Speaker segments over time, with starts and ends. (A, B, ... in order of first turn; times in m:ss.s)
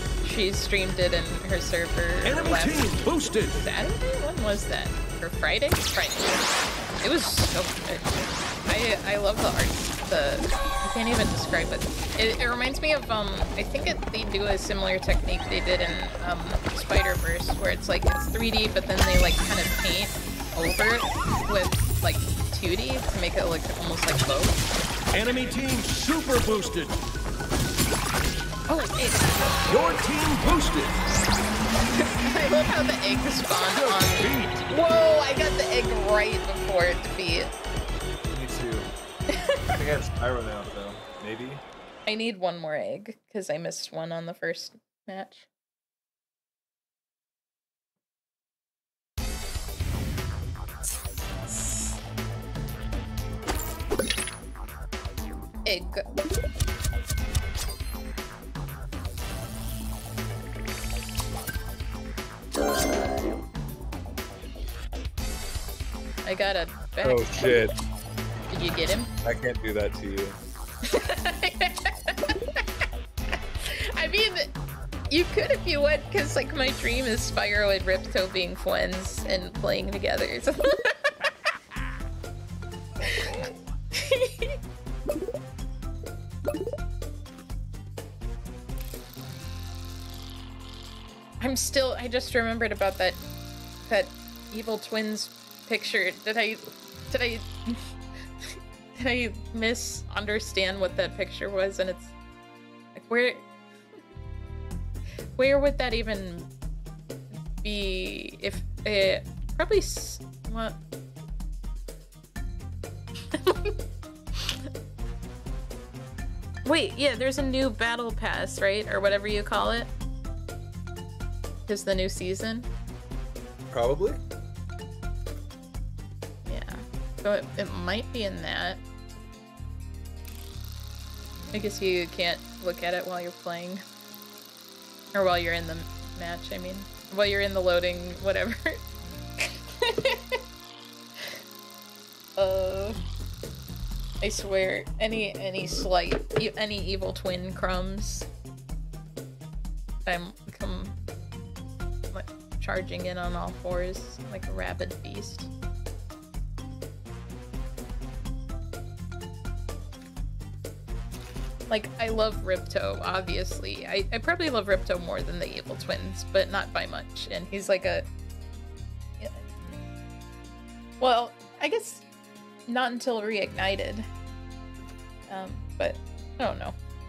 0:00.2-0:03.0 A
0:02.2-0:03.6 B
0:03.5-0:06.5 A
0:07.0-0:24.6 A
0:25.1-0:27.0 B
0:28.7-0:29.4 A
0:29.7-0:31.0 B
0:31.9-0:37.5 A
0:33.6-0:34.6 B
0:38.2-0:38.9 C
0:39.3-0:39.8 A
0:39.7-0:41.6 C
0:42.1-0:45.5 A
0:55.6-0:56.0 A
1:06.2-1:07.6 A
1:07.0-1:07.8 C
1:08.5-1:09.1 A
1:09.2-1:10.4 C
1:10.9-1:12.6 A
1:13.6-1:14.5 A
1:15.1-1:21.3 A
1:23.0-1:24.6 A
1:31.4-1:33.2 A
1:33.9-1:42.1 A
1:43.0-1:43.4 A
1:45.4-1:46.5 A
1:47.6-1:50.8 A
1:53.3-1:53.8 A
1:54.4-1:54.6 A
1:56.6-1:59.9 A
2:01.7-2:02.7 A
2:03.7-2:04.2 C
2:06.5-2:08.8 A
2:11.5-2:13.8 A
2:15.1-2:18.8 A
2:19.4-2:20.4 A
2:22.4-2:23.0 A
2:24.2-2:28.3 A
2:30.1-2:31.0 A
2:32.1-2:35.5 A
2:41.7-2:48.1 A
2:51.0-2:52.0 A
2:52.7-2:54.1 A
2:55.3-2:56.8 A